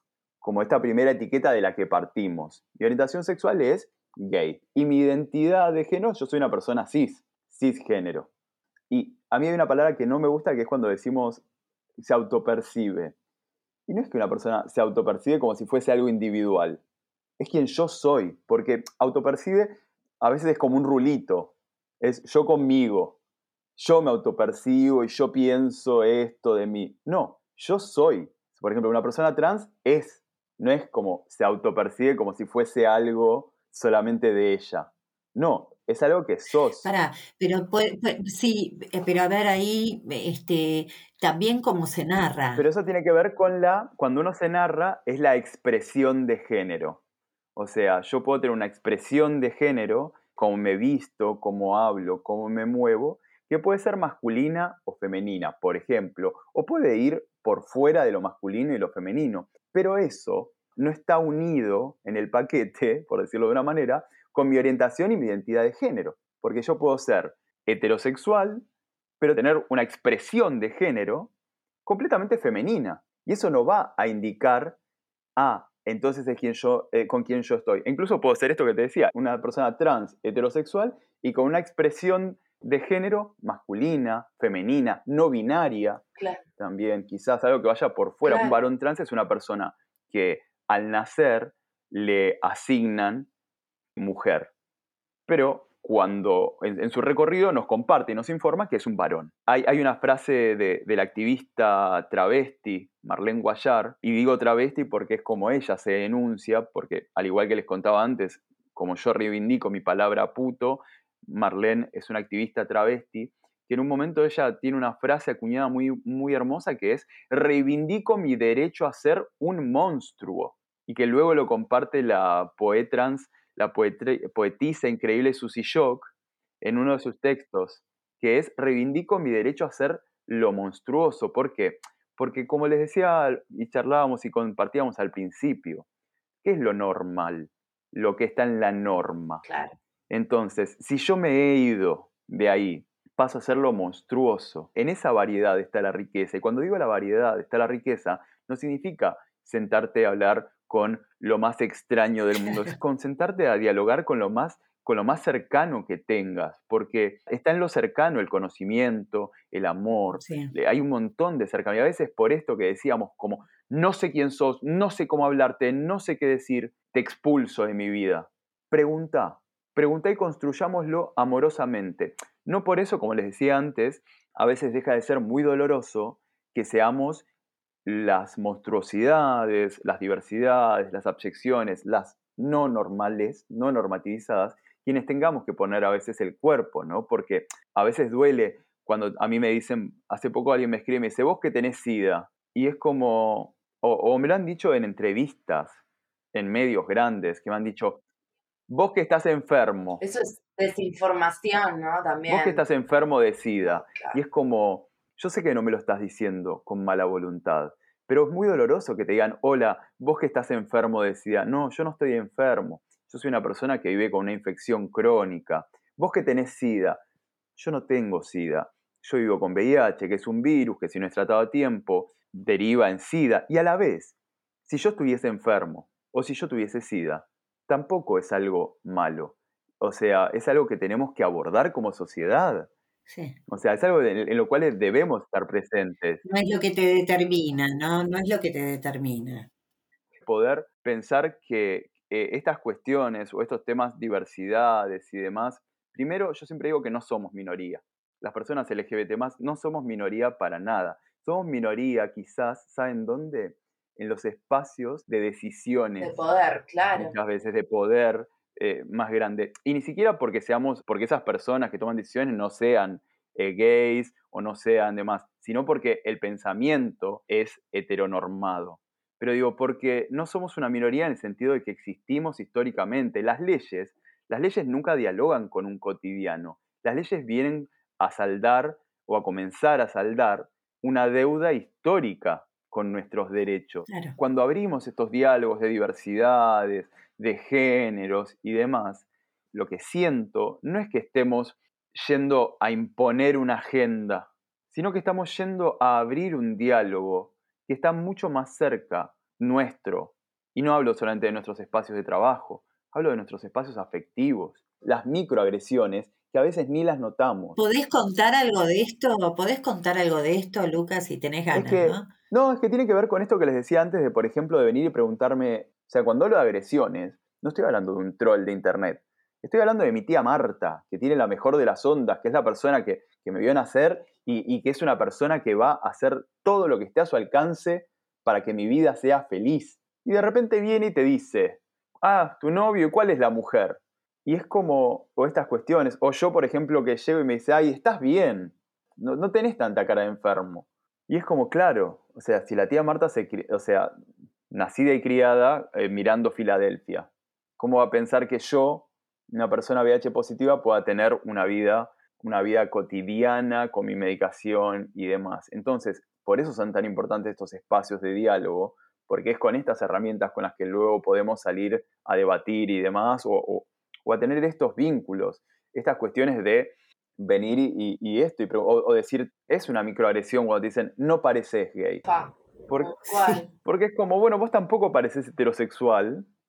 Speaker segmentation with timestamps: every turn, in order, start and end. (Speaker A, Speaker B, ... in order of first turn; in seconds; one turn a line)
Speaker A: 0.4-8.3
Speaker A: 8.9-11.4
Speaker A: 12.0-13.2
Speaker A: 13.9-16.8
Speaker A: 17.4-23.2
Speaker A: 23.8-36.9
Speaker B: 36.8-42.7
Speaker A: 42.6-47.0
Speaker A: 47.6-68.7
Speaker A: 69.2-71.3
Speaker A: 71.8-74.8
Speaker A: 75.4-86.0
Speaker C: 86.2-86.4
Speaker A: 86.6-93.3
Speaker C: 88.2-88.6
Speaker A: 94.0-94.5
Speaker A: 95.3-135.9
Speaker A: 136.4-139.4
Speaker C: 139.4-139.8
Speaker A: 140.1-177.2
Speaker B: 160.2-160.5
Speaker A: 177.8-195.8
Speaker A: 196.3-198.0
Speaker A: 198.7-200.0
Speaker C: 200.0-202.7
Speaker A: 202.3-217.0
Speaker C: 203.6-204.2
Speaker A: 217.6-224.2
Speaker A: 224.7-232.7
Speaker B: 233.1-233.4
Speaker A: 233.5-236.2
Speaker B: 236.2-239.5
Speaker A: 240.2-256.2
Speaker C: 256.0-257.1
Speaker A: 256.9-307.6
Speaker B: 283.9-284.2
Speaker B: 307.6-312.1
Speaker A: 311.5-343.9
Speaker A: 344.5-372.0
Speaker C: 372.1-373.5
Speaker A: 372.7-376.3